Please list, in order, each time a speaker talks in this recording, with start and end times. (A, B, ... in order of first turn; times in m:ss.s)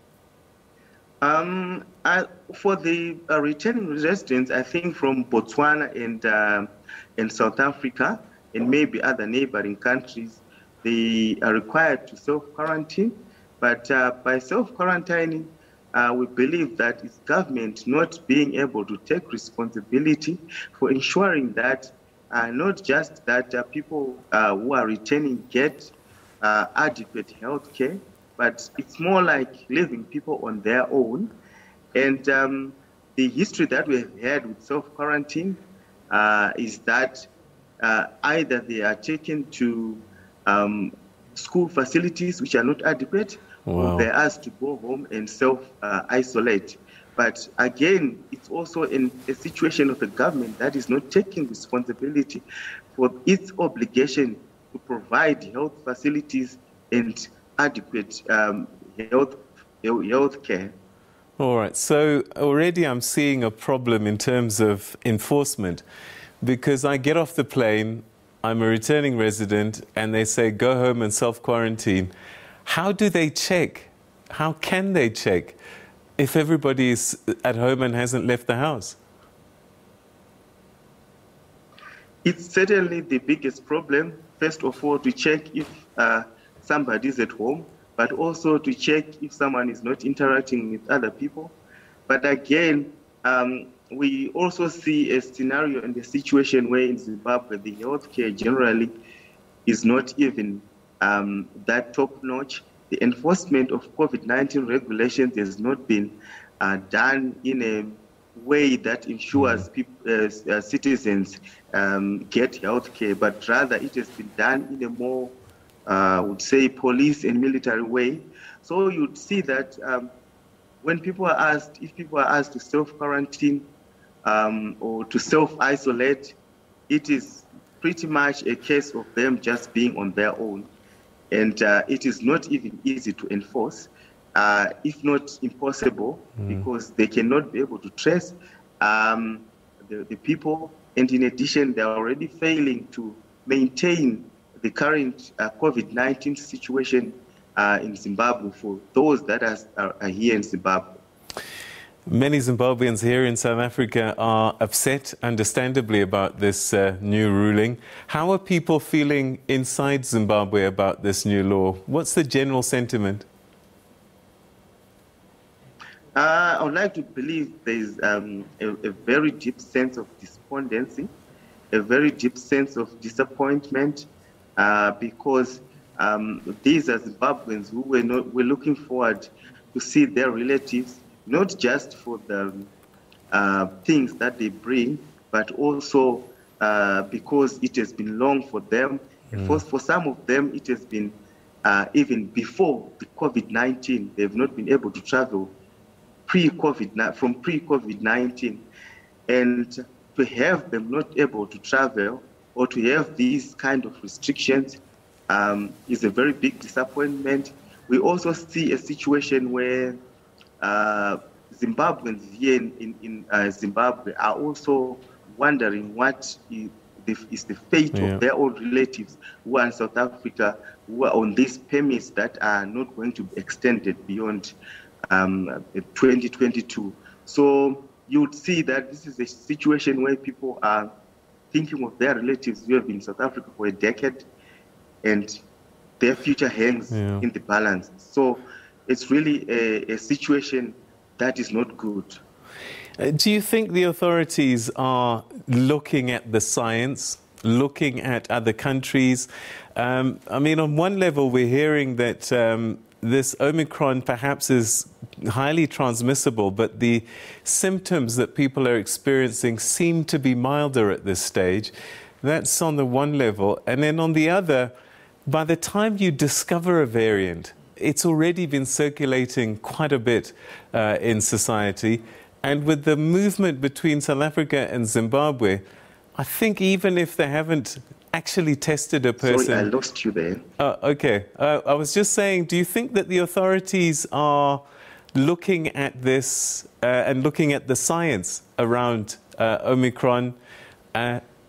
0:01.2-0:31.3 A
0:31.9-0:37.2 A
0:37.8-1:00.7 A
0:43.7-0:44.1 B
1:01.4-1:05.8 B
1:06.4-1:12.1 B
1:12.7-1:15.6 B
1:16.2-1:19.0 B
1:22.2-1:31.6 A
1:32.1-1:38.9 A
1:39.7-1:55.3 A
1:49.4-1:49.6 B
1:55.9-2:00.1 A
2:00.8-2:03.7 A
2:04.2-2:06.3 A
2:06.9-2:10.7 A
2:11.3-2:31.0 A
2:32.1-2:43.3 B
2:46.2-2:51.1 A
2:51.7-3:02.7 A
3:03.3-3:15.5 A
3:16.3-3:18.6 A
3:19.3-3:30.0 A
3:30.6-3:44.5 A
3:37.9-3:38.2 B
3:45.1-3:50.9 A
3:51.5-3:54.3 A
3:55.0-3:55.4 A
3:56.0-4:02.2 A
3:56.9-3:57.2 B
4:03.0-4:24.7 B
4:25.3-4:35.6 B
4:36.2-4:39.7 B
4:39.2-4:40.4 A
4:40.6-4:44.6 B
4:45.2-4:50.4 B
4:50.9-4:51.2 B